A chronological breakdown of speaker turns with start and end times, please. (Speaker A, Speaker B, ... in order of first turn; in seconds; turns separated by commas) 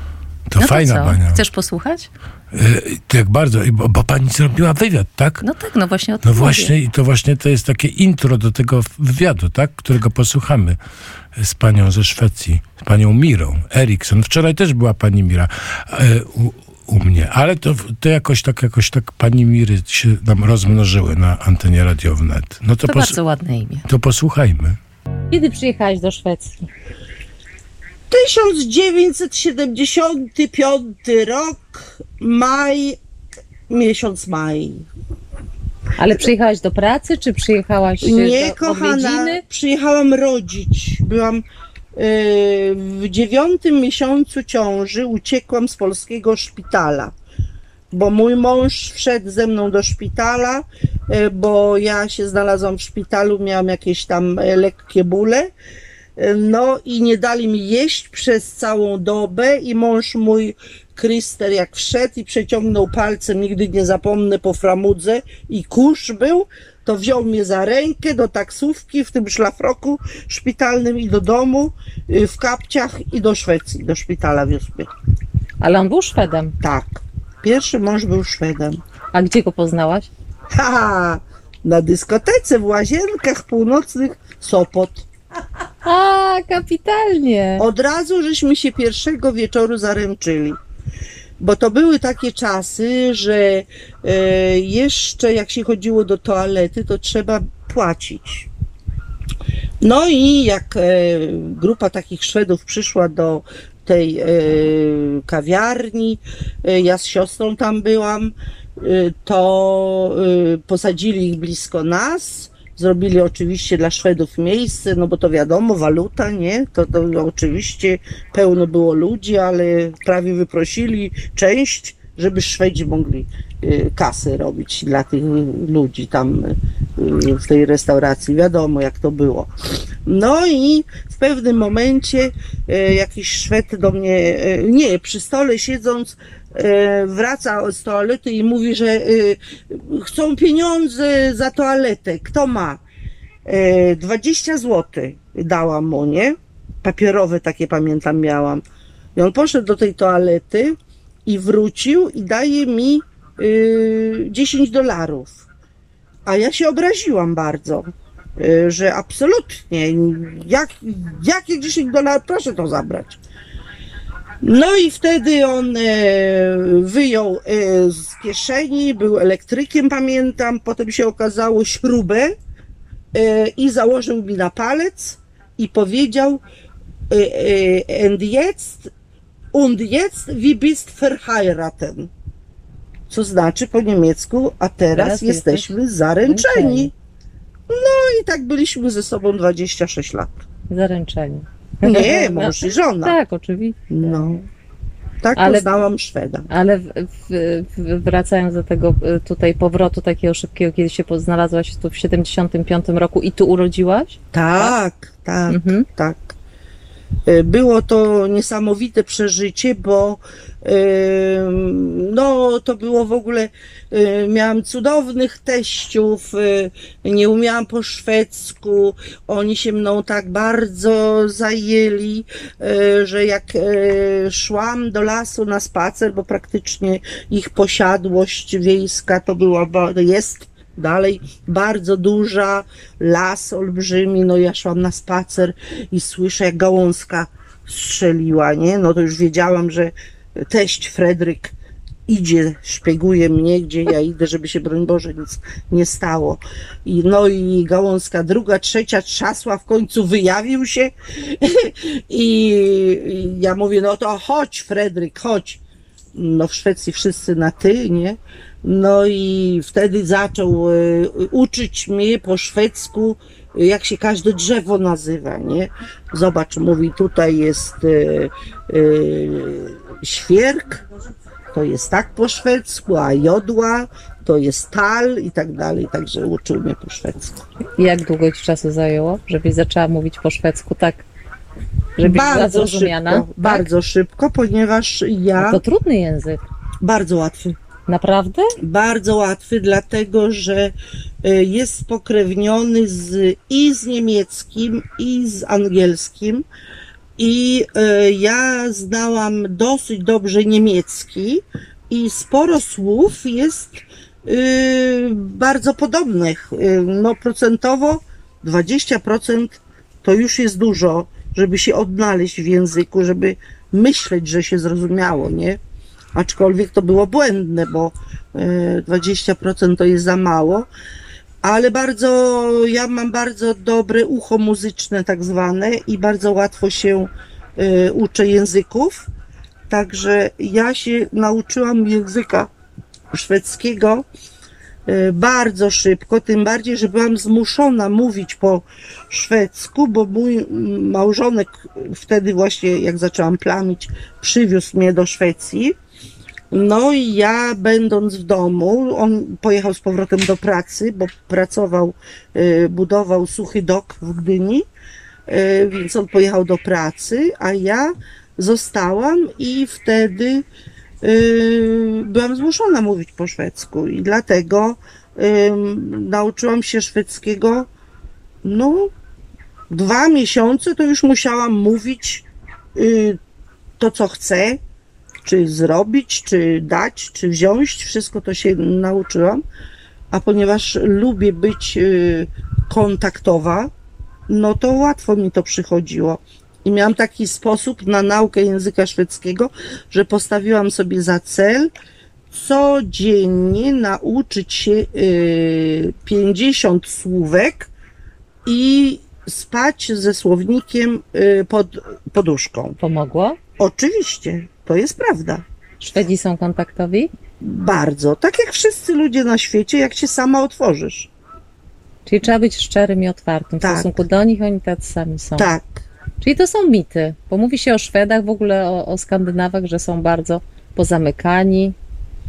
Speaker A: 0.5-1.4, Speaker B: 0.6-2.1, Speaker A: 2.5-5.4, Speaker B: 5.4-6.7, Speaker A: 6.2-10.8, Speaker A: 11.4-23.2, Speaker B: 22.8-23.9, Speaker A: 23.9-24.8, Speaker B: 25.3-26.6, Speaker C: 28.1-33.0, Speaker C: 33.7-34.9, Speaker B: 36.0-39.4, Speaker C: 38.0-41.4, Speaker C: 42.0-47.1, Speaker C: 47.9-55.5, Speaker C: 56.2-74.9, Speaker B: 75.6-76.5, Speaker C: 76.6-78.8, Speaker B: 79.1-80.1, Speaker C: 80.5-85.1, Speaker B: 85.8-87.7, Speaker C: 87.6-90.6, Speaker C: 91.4-98.5, Speaker C: 99.8-129.5, Speaker C: 130.1-142.8, Speaker C: 143.5-148.6, Speaker C: 149.2-155.4, Speaker C: 156.3-163.2, Speaker C: 164.4-172.4, Speaker C: 173.1-176.4, Speaker C: 177.1-178.9, Speaker C: 179.5-182.1, Speaker C: 183.1-186.9, Speaker B: 184.9-186.9, Speaker C: 187.7-190.3, Speaker B: 190.7-193.8, Speaker C: 191.8-193.2, Speaker C: 193.9-194.4, Speaker C: 195.2-196.5, Speaker B: 195.4-195.7, Speaker B: 196.5-204.7, Speaker C: 204.3-206.3, Speaker B: 205.5-205.9, Speaker C: 207.3-241.6, Speaker C: 242.1-255.6, Speaker C: 256.1-270.8, Speaker C: 271.5-277.4, Speaker B: 277.8-281.0, Speaker B: 282.0-283.7, Speaker C: 282.0-285.6, Speaker B: 285.4-286.4, Speaker C: 286.8-287.6, Speaker B: 287.9-288.5, Speaker C: 288.6-296.4, Speaker C: 297.2-315.6, Speaker C: 316.1-320.7, Speaker C: 321.4-329.1, Speaker C: 329.7-332.5, Speaker C: 333.1-334.1, Speaker C: 334.9-345.8, Speaker C: 346.5-354.6, Speaker C: 355.3-360.5, Speaker C: 361.0-367.7, Speaker C: 368.4-368.9, Speaker C: 369.7-373.2, Speaker C: 373.8-374.6, Speaker C: 375.2-379.4, Speaker C: 380.1-383.7, Speaker C: 384.3-391.7, Speaker C: 392.3-397.7, Speaker C: 398.5-402.8, Speaker B: 402.8-403.4, Speaker C: 403.6-405.4, Speaker B: 405.8-407.1, Speaker C: 407.4-411.1, Speaker B: 412.1-415.5, Speaker C: 413.6-414.0, Speaker C: 415.4-415.8, Speaker B: 416.2-421.8